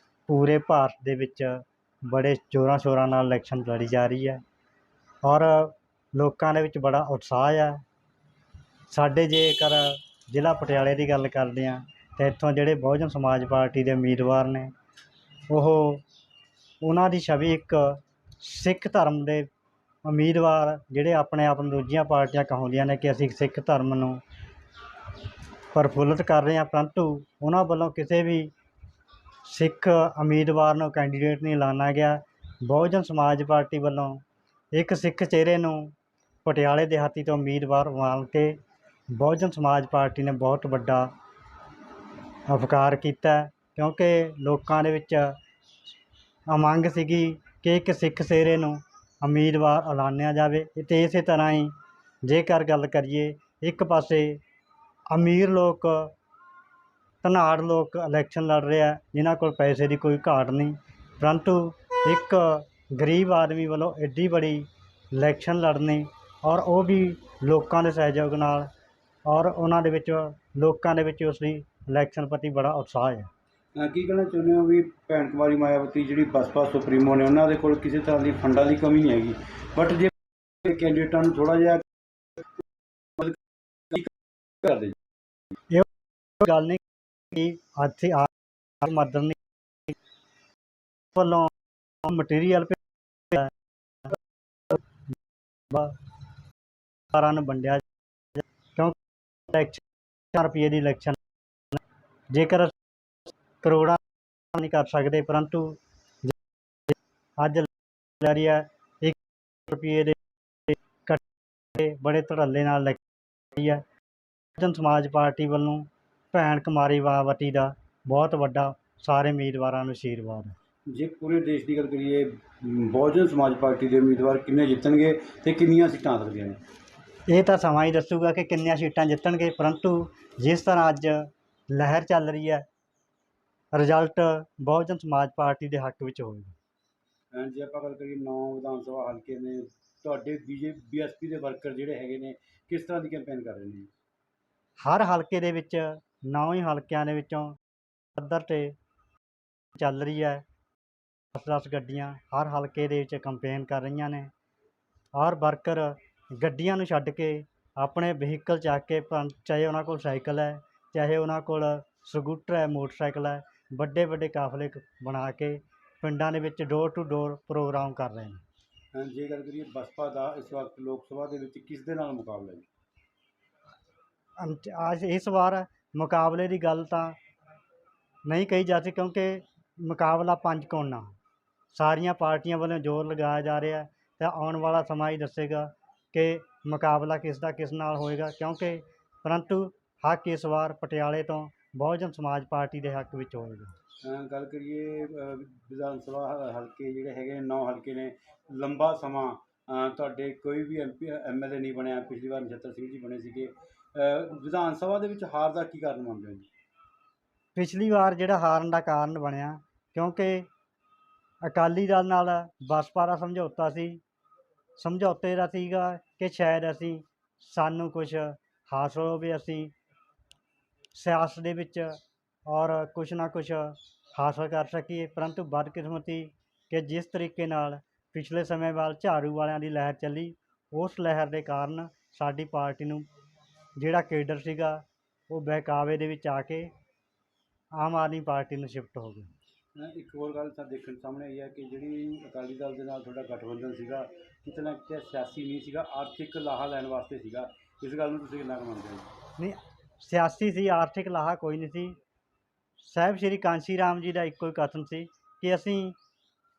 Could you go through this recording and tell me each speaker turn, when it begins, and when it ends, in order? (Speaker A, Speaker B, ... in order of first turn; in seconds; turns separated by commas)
Speaker A: 0.3-4.4, Speaker A: 5.2-7.8, Speaker A: 8.9-14.7, Speaker A: 15.5-16.1, Speaker A: 16.8-19.5, Speaker A: 20.1-24.2, Speaker A: 25.7-28.5, Speaker A: 29.4-38.6, Speaker A: 39.1-41.1, Speaker A: 42.5-45.4, Speaker A: 46.5-51.7, Speaker A: 52.2-54.4, Speaker A: 55.1-56.1, Speaker A: 57.2-68.7, Speaker A: 69.3-73.3, Speaker B: 73.8-81.9, Speaker B: 83.2-85.0, Speaker A: 85.7-89.9, Speaker A: 91.1-93.5, Speaker A: 95.7-96.0, Speaker A: 97.1-97.8, Speaker A: 98.4-99.0, Speaker A: 99.5-101.2, Speaker A: 102.3-102.8, Speaker A: 103.6-104.0, Speaker A: 104.5-106.3, Speaker A: 106.9-111.2, Speaker A: 111.7-113.0, Speaker A: 113.5-113.8, Speaker A: 114.6-120.6, Speaker B: 120.9-126.6, Speaker A: 127.3-132.6, Speaker A: 133.7-136.6, Speaker B: 137.3-143.9, Speaker A: 144.8-147.6, Speaker A: 148.2-148.8, Speaker A: 149.8-150.4, Speaker A: 151.3-154.3, Speaker A: 155.2-168.4, Speaker B: 168.9-172.7, Speaker A: 174.4-177.2, Speaker A: 178.3-181.2, Speaker A: 181.7-193.7, Speaker B: 194.0-206.5, Speaker A: 207.6-210.5, Speaker A: 211.4-214.0, Speaker A: 214.8-219.7, Speaker A: 220.9-233.1, Speaker A: 233.8-236.7, Speaker A: 237.8-239.3, Speaker B: 239.8-249.1, Speaker A: 249.4-252.0, Speaker A: 252.8-256.0